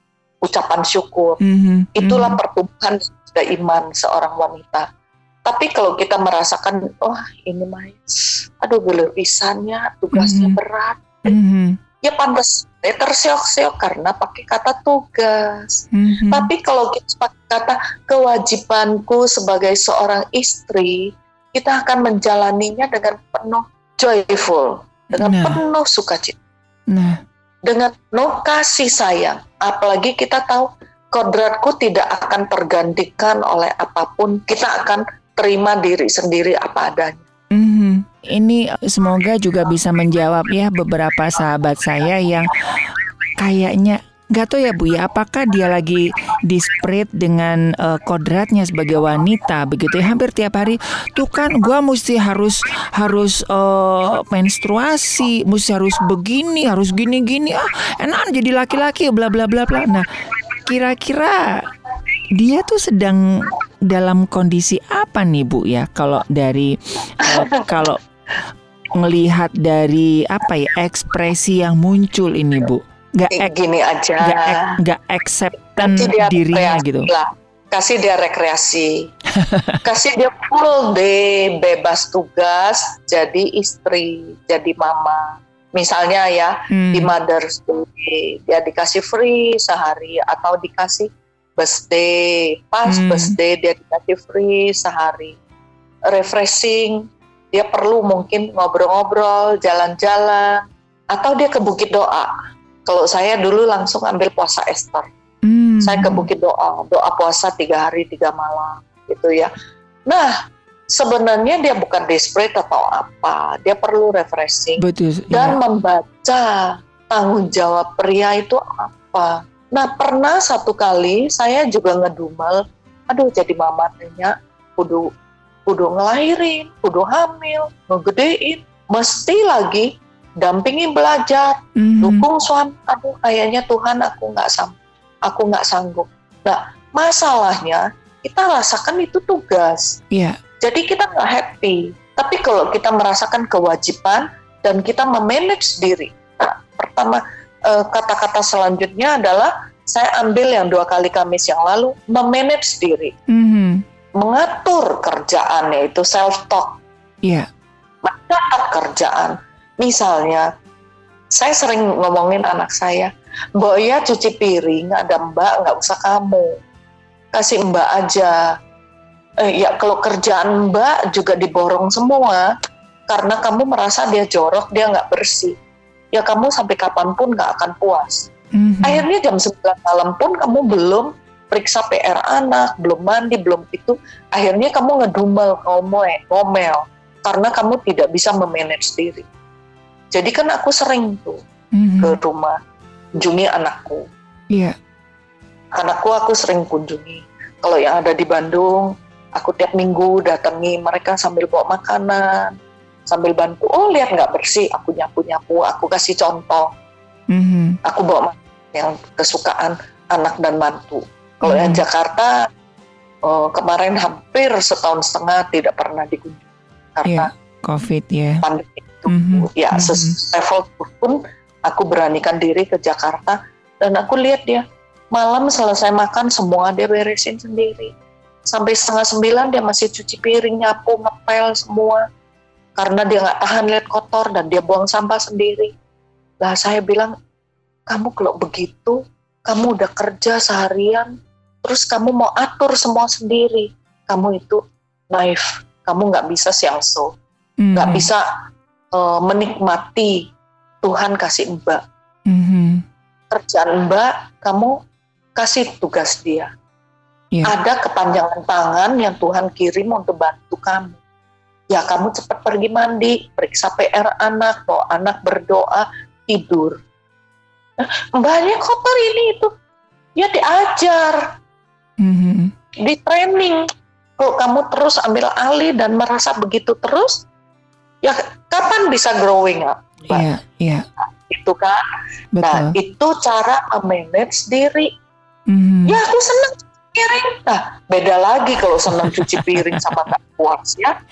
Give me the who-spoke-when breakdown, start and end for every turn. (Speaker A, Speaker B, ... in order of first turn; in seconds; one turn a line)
Speaker A: 0.4-1.4
Speaker B: 1.4-2.4
Speaker A: 1.9-4.9
Speaker A: 5.4-11.3
Speaker B: 10.1-10.6
Speaker B: 11.2-11.8
Speaker A: 12.0-26.4
Speaker B: 15.9-16.5
Speaker B: 25.1-25.6
Speaker B: 26.9-27.2
Speaker A: 27.6-37.2
Speaker B: 37.5-42.5
Speaker B: 43.4-60.1
Speaker B: 60.6-61.6
Speaker B: 62.3-68.0
Speaker A: 67.2-67.7
Speaker B: 68.9-73.5
Speaker A: 73.3-74.8
Speaker B: 74.2-77.1
Speaker A: 75.8-79.1
Speaker B: 79.3-79.8
Speaker A: 79.8-95.4
Speaker B: 86.7-87.1
Speaker B: 92.8-93.3
Speaker A: 96.1-102.3
Speaker A: 102.8-105.1
Speaker B: 105.4-106.3
Speaker A: 105.8-109.5
Speaker A: 110.1-110.3
Speaker A: 110.9-125.1
Speaker B: 114.8-115.6
Speaker A: 125.7-140.0
Speaker B: 131.8-132.2
Speaker B: 140.1-140.4
Speaker A: 140.6-153.1
Speaker B: 153.3-153.8
Speaker A: 154.2-156.8
Speaker A: 158.0-160.5
Speaker A: 161.3-166.6
Speaker A: 167.3-168.6
Speaker A: 169.4-172.5
Speaker A: 173.1-175.6
Speaker A: 176.1-178.3
Speaker B: 178.5-179.0
Speaker A: 178.8-189.2
Speaker A: 190.1-191.4
Speaker B: 191.7-192.2
Speaker A: 192.0-192.6
Speaker A: 193.2-194.1
Speaker A: 195.7-202.6
Speaker A: 203.1-206.7
Speaker B: 207.3-207.8
Speaker A: 207.8-212.5
Speaker B: 211.4-211.8
Speaker A: 213.2-217.3
Speaker B: 217.0-218.4
Speaker A: 218.4-227.9
Speaker B: 219.1-220.1
Speaker A: 228.4-232.0
Speaker A: 232.8-235.7
Speaker A: 236.4-237.1
Speaker A: 237.9-247.1
Speaker B: 247.6-248.1
Speaker A: 247.7-248.2
Speaker A: 248.9-250.3
Speaker A: 250.8-251.8
Speaker B: 252.3-252.8
Speaker A: 253.3-254.8
Speaker A: 255.3-256.5
Speaker A: 257.4-261.0
Speaker A: 261.7-266.8
Speaker A: 267.8-269.5
Speaker A: 270.1-271.2
Speaker B: 272.0-272.5
Speaker A: 272.8-273.6
Speaker A: 274.2-277.2
Speaker A: 278.0-280.3
Speaker B: 280.1-280.8
Speaker A: 281.2-281.8
Speaker B: 282.4-282.8
Speaker A: 282.4-284.9
Speaker B: 285.5-286.0
Speaker A: 285.9-290.9
Speaker B: 289.0-289.8